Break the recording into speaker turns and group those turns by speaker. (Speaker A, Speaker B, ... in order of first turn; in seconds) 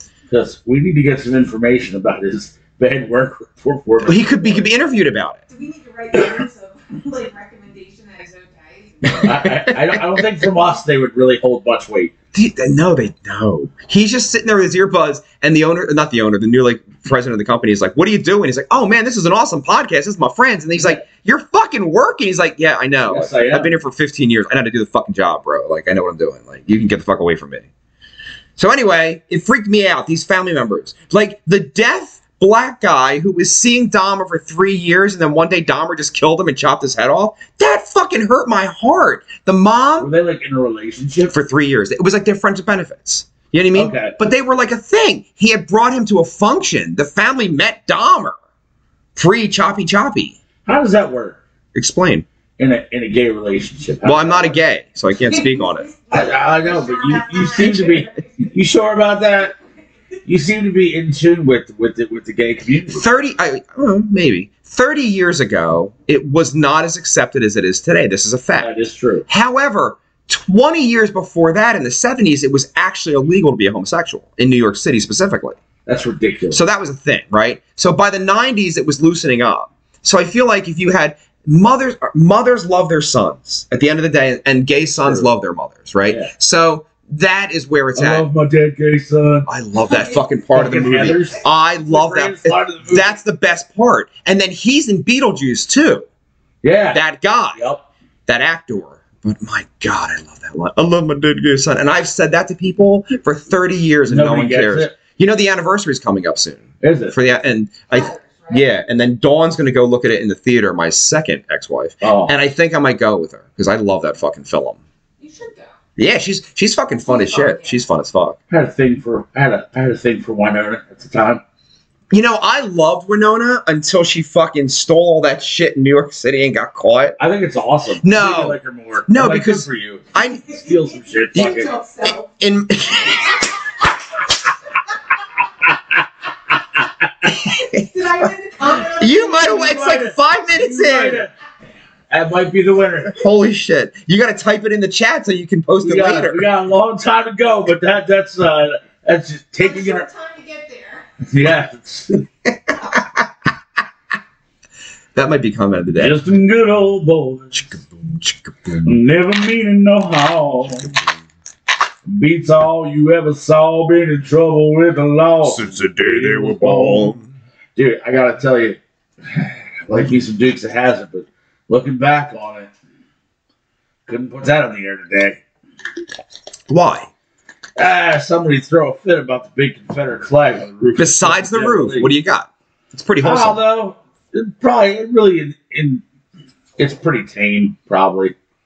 Speaker A: 0.3-4.7, 9.2-12.1, 23.1-23.7, 40.0-41.3, 43.7-44.2, 50.6-51.4, 52.6-54.6, 56.1-59.6, 60.2-63.0, 68.6-69.2, 75.9-76.6, 88.0-89.5, 90.5-93.2, 96.6-97.0, 97.6-97.8, 104.1-105.0, 106.8-107.2, 112.0-112.4, 118.5-121.4, 127.2-131.7, 139.4-141.3, 142.1-143.1, 145.8-150.1, 151.2-152.2, 156.0-157.8, 158.8-161.0, 162.1-167.2, 167.8-172.7, 174.1-175.4, 177.8-182.1, 183.2-186.0, 186.8-188.3
Speaker B: 4.0-5.4, 9.1-9.8, 12.3-27.7, 28.6-40.1, 41.3-48.4, 49.1-50.4, 51.8-52.2, 54.0-55.9, 62.9-68.7, 69.3-75.6, 76.5-88.2, 89.5-96.1, 96.9-97.6, 98.3-114.8, 116.0-118.4, 122.1-127.2, 128.0-130.5, 131.3-131.6, 132.3-133.5, 139.0-141.3, 143.1-146.5, 152.9-153.2, 155.1-156.2, 157.5-159.0, 165.4-167.2, 176.7-177.1, 181.0-183.6
Speaker C: 5.5-9.3, 55.3-58.5, 89.9-90.2, 107.9-108.8, 115.2-115.8, 117.1-117.8, 130.6-132.3, 137.5-139.9, 149.6-151.1